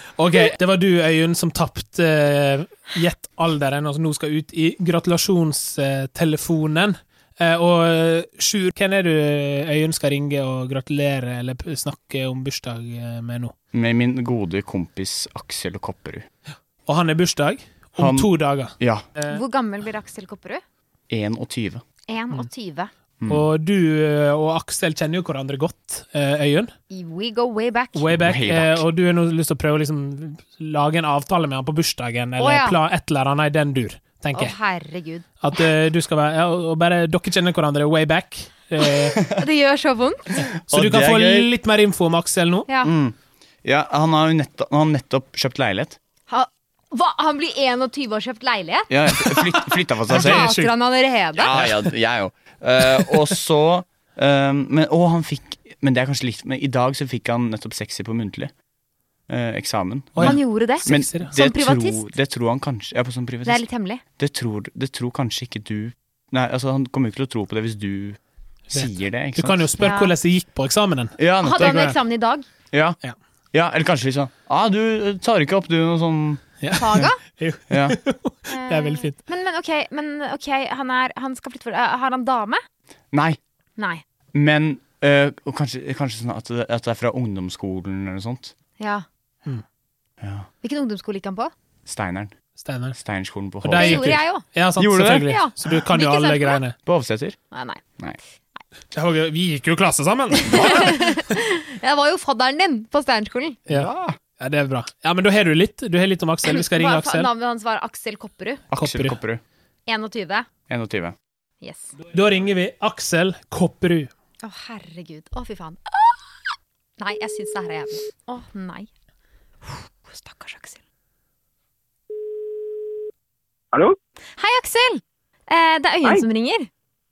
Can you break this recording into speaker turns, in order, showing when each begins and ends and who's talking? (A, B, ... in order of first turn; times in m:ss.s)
0:00.2-0:13.5 A
0:13.7-0:16.2 B
0:16.9-0:19.4 A
0:18.0-0:19.0 B
0:19.3-0:20.6 C
0:21.1-0:21.8 B
0:22.1-0:22.9 C
0:23.3-0:26.7 A
0:26.9-0:28.1 C
0:27.9-0:34.5 A
0:28.1-0:28.8 B
0:32.4-0:32.8 C
0:34.3-0:35.2 C
0:35.4-0:39.2 A
0:39.1-0:40.5 C
0:40.7-0:42.7 A
0:40.7-0:41.5 B
0:42.7-0:42.9 C
0:42.8-0:46.0 B
0:46.3-0:48.9 C
0:48.9-0:50.5 B
0:49.1-0:50.7 A
0:50.1-0:51.5 C
0:51.3-0:58.5 B
0:51.5-0:51.8 A
0:59.3-1:03.6 B
1:00.1-1:01.3 A
1:00.2-1:02.0 C
1:03.4-1:04.0 C
1:04.2-1:08.2 B
1:08.7-1:12.0 A
1:08.7-1:09.7 B
1:09.8-1:10.1 C
1:11.2-1:11.8 B
1:11.4-1:12.4 C
1:12.7-1:13.0 B
1:13.5-1:16.4 B
1:16.6-1:19.2 A
1:16.7-1:17.2 C
1:17.7-1:18.0 B
1:18.5-1:22.6 C
1:23.1-1:23.4 B
1:24.3-1:28.5 B
1:28.8-1:29.0 C
1:30.2-1:30.5 B
1:30.6-1:31.5 C
1:31.8-1:32.3 B
1:32.6-1:33.0 A
1:33.0-1:34.1 B
1:33.6-1:36.8 A
1:33.8-1:34.4 C
1:34.8-1:35.3 B
1:35.2-1:36.6 C
1:36.8-1:37.4 B
1:37.5-1:37.8 C
1:38.9-1:41.2 A
1:40.4-1:43.6 C
1:43.7-1:47.3 A
1:43.7-1:44.2 B
1:46.5-1:48.6 C
1:48.7-1:49.4 B
1:48.7-1:49.2 A
1:49.9-1:50.5 C
1:50.7-1:51.2 B
1:51.6-1:51.9 C
1:52.1-1:54.1 A
1:54.4-1:56.2 C
1:57.0-1:58.9 C
1:59.6-2:00.8 C
2:04.4-2:06.7 C